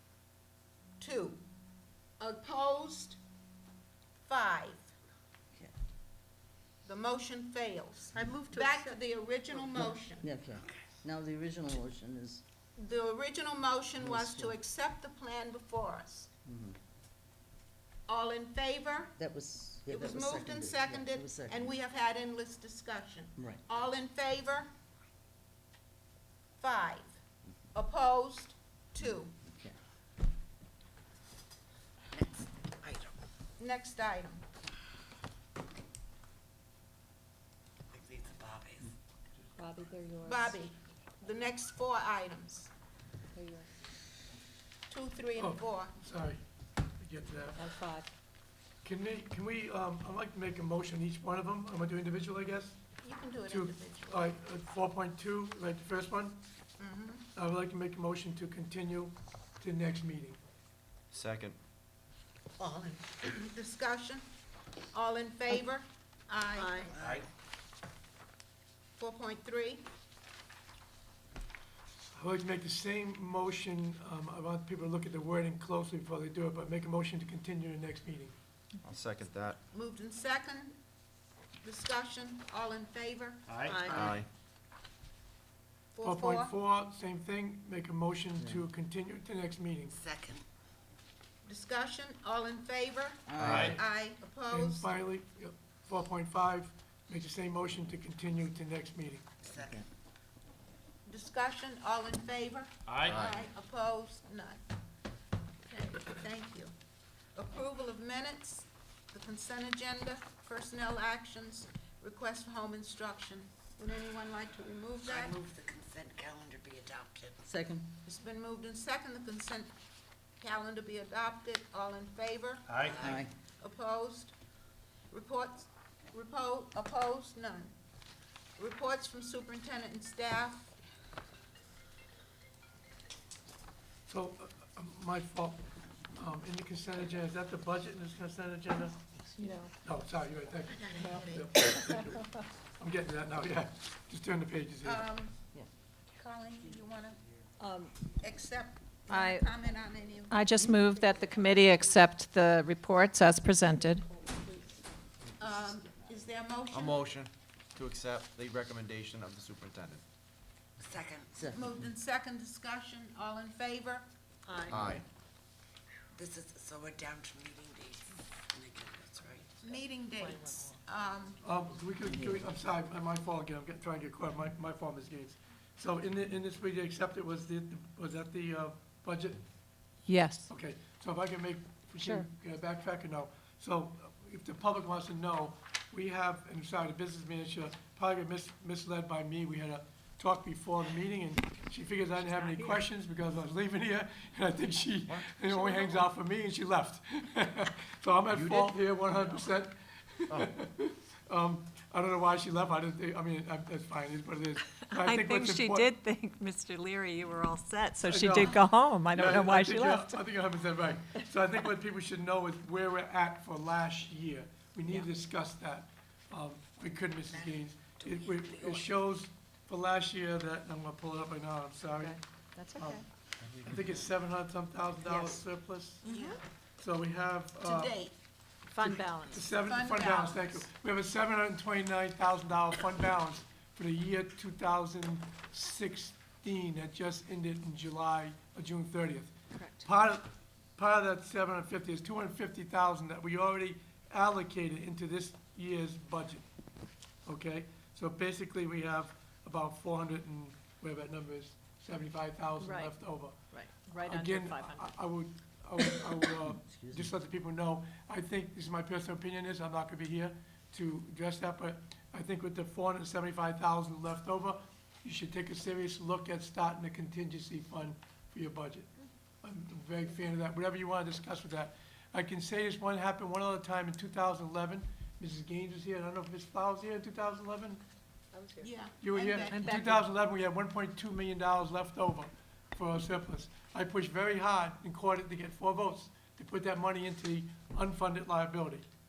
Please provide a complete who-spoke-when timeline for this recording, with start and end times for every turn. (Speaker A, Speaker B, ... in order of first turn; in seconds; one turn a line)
Speaker A: 1.0-1.4
Speaker A: 2.2-3.2
Speaker A: 4.2-4.9
Speaker A: 6.8-10.3
Speaker B: 8.2-8.8
Speaker C: 9.8-12.4
Speaker A: 12.8-16.3
Speaker C: 14.0-14.6
Speaker C: 16.5-16.8
Speaker A: 18.1-19.2
Speaker C: 19.2-21.7
Speaker A: 19.9-24.7
Speaker A: 26.6-27.2
Speaker A: 27.7-29.3
Speaker D: 32.1-33.2
Speaker A: 33.6-34.4
Speaker D: 37.9-38.9
Speaker B: 39.6-40.5
Speaker A: 40.2-42.7
Speaker B: 43.4-43.7
Speaker A: 44.9-46.0
Speaker E: 45.4-46.4
Speaker E: 47.0-47.6
Speaker B: 47.6-48.0
Speaker E: 48.8-52.8
Speaker A: 53.0-54.3
Speaker E: 53.5-56.4
Speaker A: 56.8-57.3
Speaker E: 57.3-60.4
Speaker F: 61.1-61.6
Speaker A: 62.6-64.3
Speaker A: 64.9-67.0
Speaker G: 66.6-66.9
Speaker D: 67.0-67.2
Speaker A: 69.0-69.8
Speaker E: 72.1-78.3
Speaker F: 78.8-79.6
Speaker A: 79.7-80.8
Speaker A: 81.6-83.4
Speaker D: 83.5-83.9
Speaker G: 83.7-84.1
Speaker F: 83.9-84.3
Speaker A: 85.9-86.5
Speaker E: 86.0-90.0
Speaker C: 88.4-88.7
Speaker D: 89.9-90.4
Speaker A: 91.5-94.9
Speaker C: 93.3-93.8
Speaker F: 93.4-93.8
Speaker D: 93.4-93.8
Speaker E: 94.5-99.3
Speaker D: 99.5-99.8
Speaker C: 99.6-99.8
Speaker A: 101.1-104.6
Speaker D: 102.9-103.2
Speaker F: 103.1-103.4
Speaker A: 105.7-106.7
Speaker A: 107.3-115.4
Speaker D: 115.1-117.3
Speaker C: 117.4-117.9
Speaker A: 118.0-119.7
Speaker A: 120.4-124.3
Speaker D: 122.7-123.2
Speaker C: 122.9-123.3
Speaker A: 125.1-127.7
Speaker A: 128.6-130.8
Speaker E: 134.1-135.6
Speaker E: 136.2-139.0
Speaker G: 139.4-139.7
Speaker E: 139.8-145.1
Speaker A: 140.7-141.9
Speaker A: 144.8-145.4
Speaker A: 146.1-147.2
Speaker B: 147.6-147.9
Speaker A: 148.2-150.8
Speaker G: 149.1-149.5
Speaker G: 150.3-154.1
Speaker B: 150.8-151.3
Speaker B: 153.9-154.8
Speaker A: 155.4-157.0
Speaker F: 156.7-160.0
Speaker D: 160.8-161.3
Speaker C: 161.4-161.7
Speaker A: 161.5-164.1
Speaker G: 164.5-164.8
Speaker F: 164.7-165.0
Speaker D: 166.2-169.4
Speaker A: 169.6-171.4
Speaker E: 171.4-179.5
Speaker C: 172.0-172.5
Speaker G: 180.1-180.5
Speaker E: 180.5-205.9
Speaker G: 182.0-182.3
Speaker G: 192.4-192.8
Speaker F: 195.1-195.3
Speaker G: 195.5-196.0
Speaker F: 198.3-198.8
Speaker G: 204.8-210.2
Speaker E: 208.1-222.2
Speaker D: 217.4-218.8
Speaker G: 222.0-223.1
Speaker E: 222.8-223.0
Speaker E: 223.6-226.2
Speaker A: 226.1-226.4
Speaker G: 226.1-226.4
Speaker E: 226.8-228.0
Speaker A: 227.6-228.1
Speaker G: 228.8-229.4
Speaker E: 228.8-246.4
Speaker A: 229.5-230.7
Speaker G: 239.5-239.8
Speaker E: 247.2-253.4
Speaker G: 252.6-255.0
Speaker E: 254.0-268.9
Speaker C: 256.7-257.1
Speaker E: 269.4-277.8
Speaker B: 278.3-278.7
Speaker A: 278.6-279.8
Speaker E: 279.0-288.9
Speaker G: 279.5-280.0